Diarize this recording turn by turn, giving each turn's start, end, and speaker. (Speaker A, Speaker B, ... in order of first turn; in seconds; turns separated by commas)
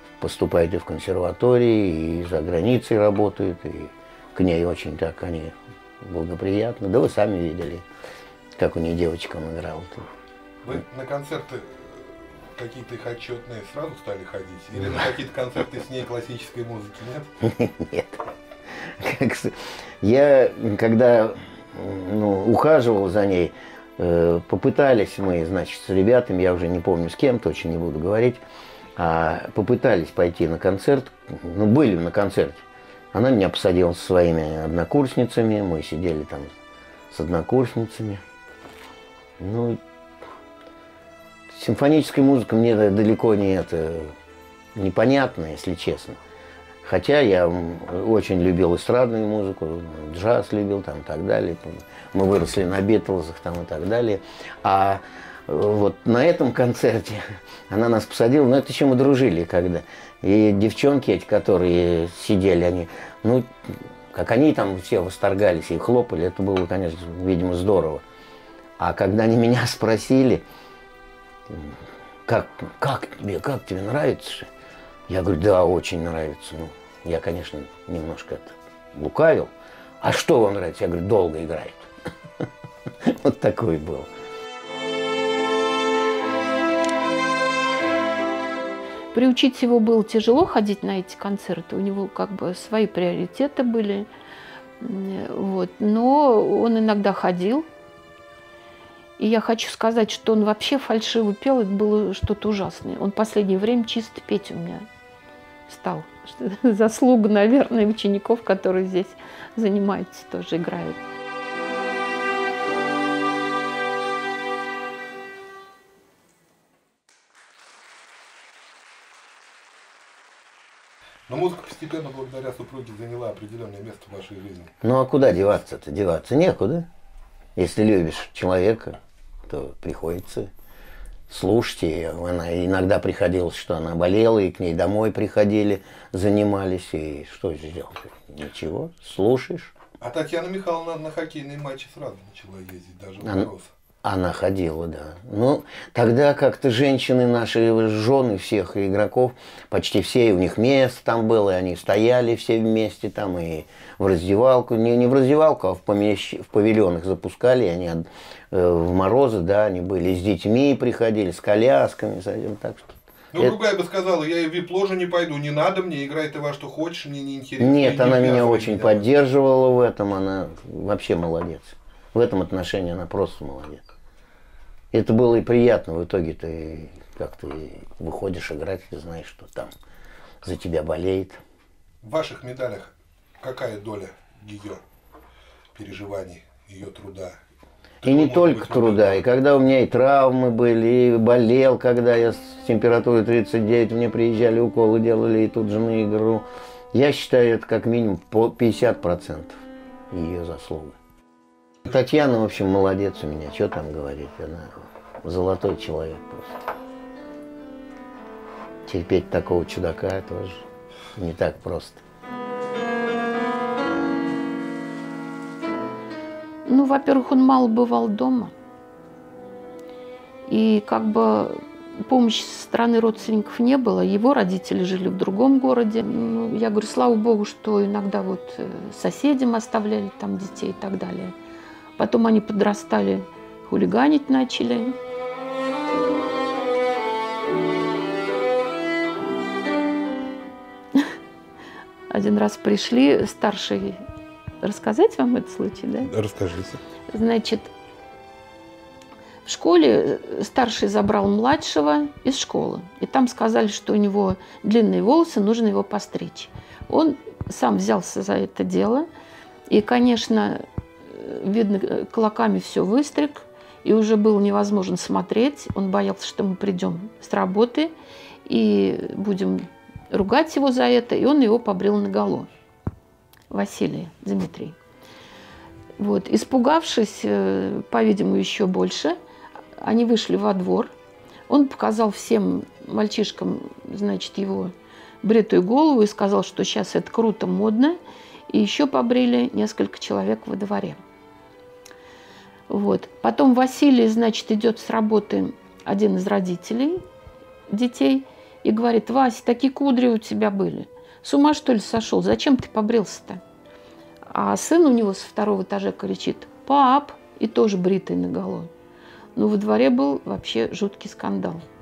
Speaker A: 0.2-7.8, Speaker A: 8.6-10.1, Speaker B: 10.6-17.3, Speaker A: 17.4-18.2, Speaker A: 18.8-28.4, Speaker A: 29.0-36.5, Speaker A: 37.1-38.2, Speaker A: 39.4-39.8, Speaker A: 41.5-44.1, Speaker A: 44.7-46.2, Speaker A: 46.8-68.0, Speaker A: 68.8-70.4, Speaker A: 71.5-74.5, Speaker A: 75.1-81.9, Speaker A: 83.0-84.1, Speaker C: 89.1-94.1, Speaker C: 94.8-97.7, Speaker C: 99.2-104.8, Speaker C: 105.7-111.0, Speaker B: 121.3-124.7, Speaker A: 124.8-126.9, Speaker A: 127.5-130.5, Speaker A: 131.3-139.7, Speaker B: 140.0-143.7, Speaker A: 143.2-143.5, Speaker A: 144.0-163.6, Speaker B: 163.3-169.0, Speaker A: 167.6-173.8, Speaker A: 174.9-179.7, Speaker A: 180.4-181.4, Speaker B: 182.0-184.8, Speaker B: 185.7-187.3, Speaker B: 188.0-189.2, Speaker A: 188.0-201.0, Speaker A: 201.8-206.6, Speaker A: 208.8-210.6, Speaker A: 211.2-212.0, Speaker C: 216.7-218.5, Speaker C: 220.5-231.3, Speaker C: 232.0-234.9, Speaker C: 242.1-244.0, Speaker C: 244.6-246.1, Speaker B: 246.0-246.8, Speaker C: 247.1-247.7, Speaker C: 249.4-259.1, Speaker C: 259.7-267.9, Speaker C: 268.4-272.5, Speaker C: 273.5-274.8, Speaker C: 276.0-279.2, Speaker C: 279.8-280.9, Speaker C: 281.5-291.0, Speaker C: 292.7-297.0, Speaker C: 297.7-303.4, Speaker C: 304.3-308.7, Speaker C: 309.4-311.6